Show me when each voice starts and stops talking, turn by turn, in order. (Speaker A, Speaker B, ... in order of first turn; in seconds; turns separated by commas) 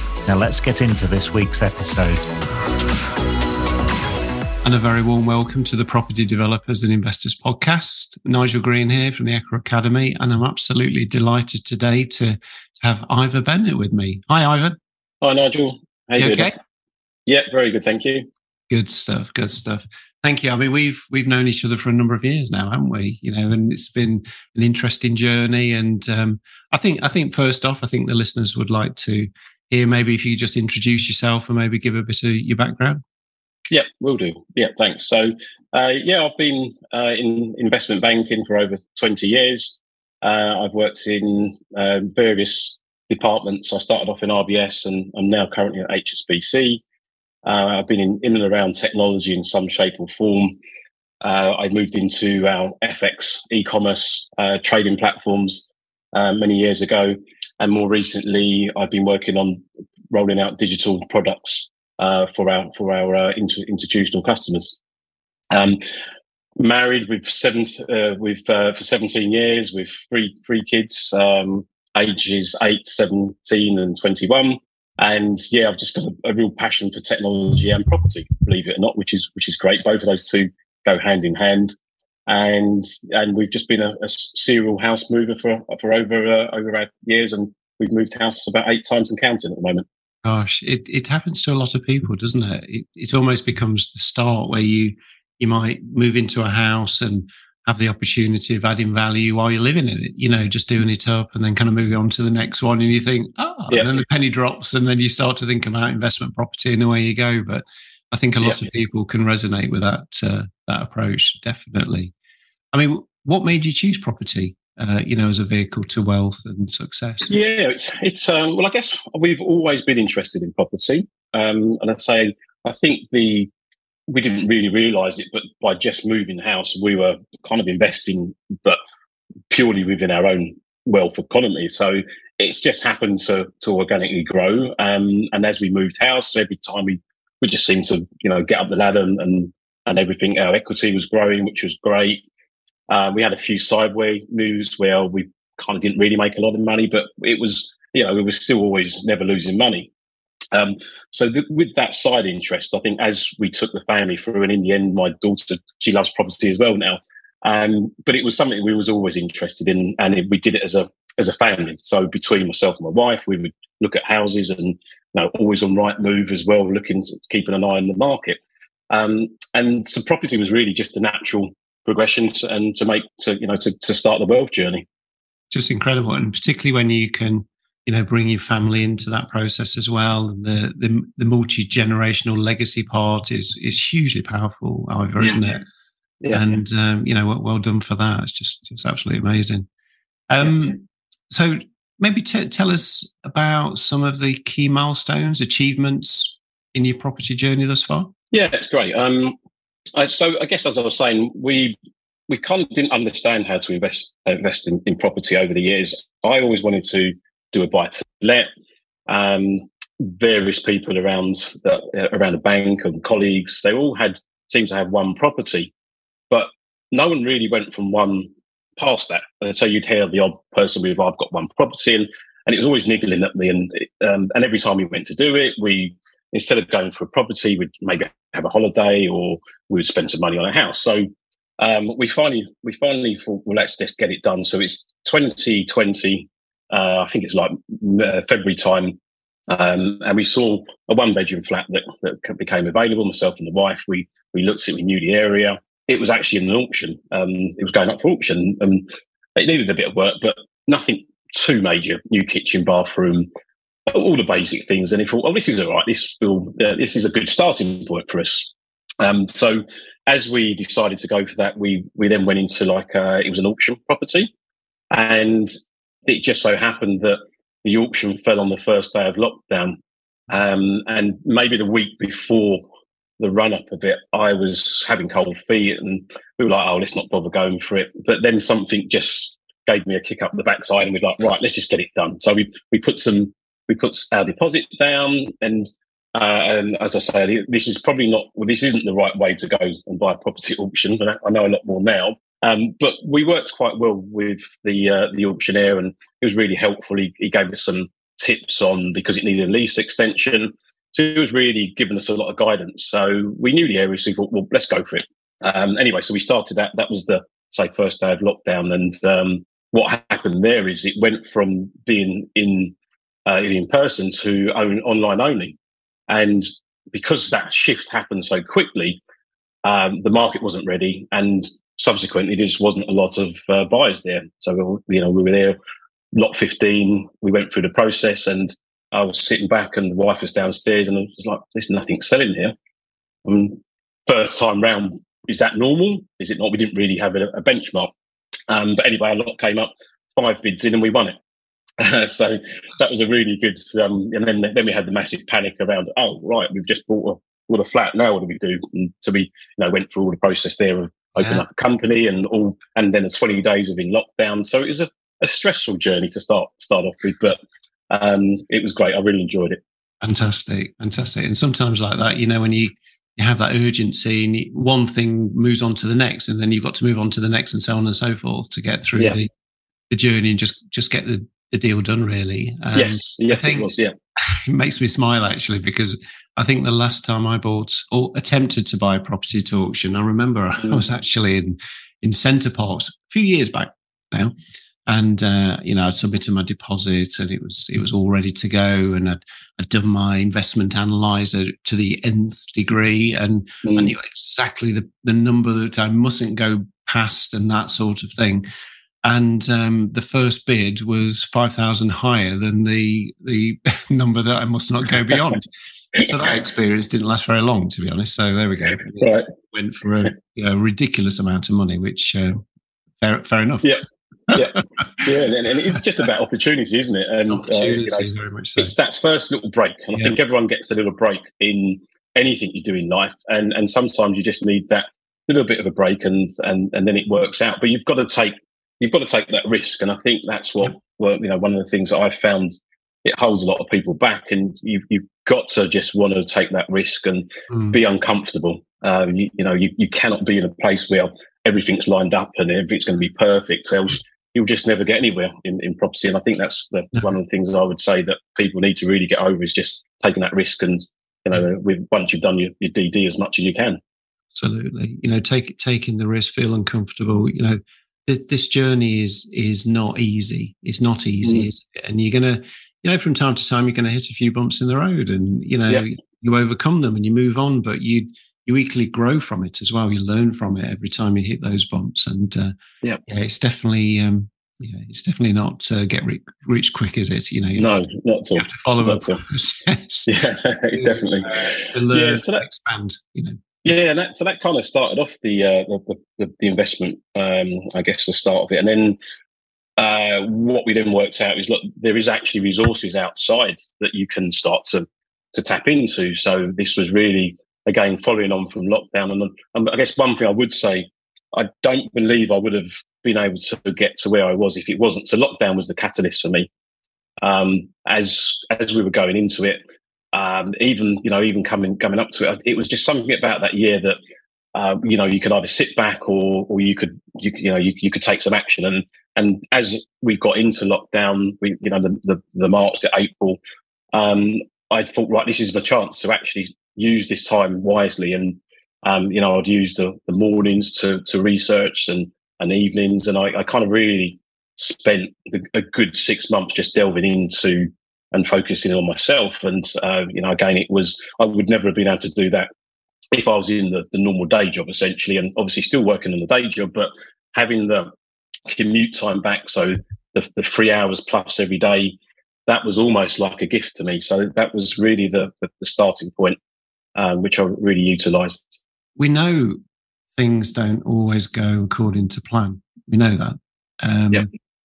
Speaker A: 0.3-2.2, Speaker B: 4.6-14.8, Speaker C: 15.2-16.6, Speaker B: 16.2-16.6, Speaker C: 17.3-18.3, Speaker B: 18.7-33.0, Speaker C: 33.7-46.8, Speaker C: 47.5-50.6, Speaker C: 51.2-64.8, Speaker C: 65.5-65.8, Speaker C: 66.6-81.7, Speaker C: 82.3-89.8, Speaker B: 90.2-112.1, Speaker C: 108.4-108.7, Speaker B: 112.7-117.3, Speaker C: 117.2-123.5, Speaker C: 124.1-128.8, Speaker C: 129.5-142.2, Speaker C: 142.9-149.9, Speaker C: 150.5-174.8, Speaker B: 175.5-185.6, Speaker C: 186.2-186.5, Speaker B: 186.3-189.7, Speaker B: 190.3-198.1, Speaker C: 198.3-199.4, Speaker C: 200.0-201.8, Speaker C: 202.3-208.5, Speaker C: 209.1-215.7, Speaker C: 216.3-253.3, Speaker C: 253.9-258.5, Speaker C: 259.0-264.3, Speaker C: 264.9-265.5, Speaker C: 266.1-269.8, Speaker C: 270.3-272.7, Speaker C: 273.2-312.8, Speaker C: 313.3-315.6, Speaker C: 316.1-319.0, Speaker C: 319.6-325.6, Speaker C: 326.1-332.5, Speaker C: 333.2-337.9, Speaker C: 338.5-341.1, Speaker C: 341.8-359.6, Speaker B: 360.0-369.3, Speaker B: 369.9-384.3, Speaker C: 372.7-373.9, Speaker B: 384.9-398.4, Speaker C: 393.6-393.9, Speaker B: 399.0-412.4, Speaker C: 408.8-409.3, Speaker B: 413.0-413.7, Speaker C: 413.6-453.8, Speaker B: 414.3-414.6, Speaker B: 417.2-418.8, Speaker B: 454.3-472.5, Speaker C: 461.2-461.5, Speaker B: 473.1-477.7, Speaker C: 477.6-479.2, Speaker B: 478.4-480.1, Speaker C: 480.1-482.4, Speaker B: 480.7-483.4, Speaker C: 483.6-489.0, Speaker C: 489.8-506.5, Speaker C: 507.2-509.6, Speaker C: 510.1-514.0, Speaker C: 514.5-523.4, Speaker C: 523.9-542.5, Speaker C: 543.1-547.9, Speaker C: 548.5-556.4, Speaker C: 557.0-558.6, Speaker B: 559.0-559.6, Speaker B: 560.1-564.3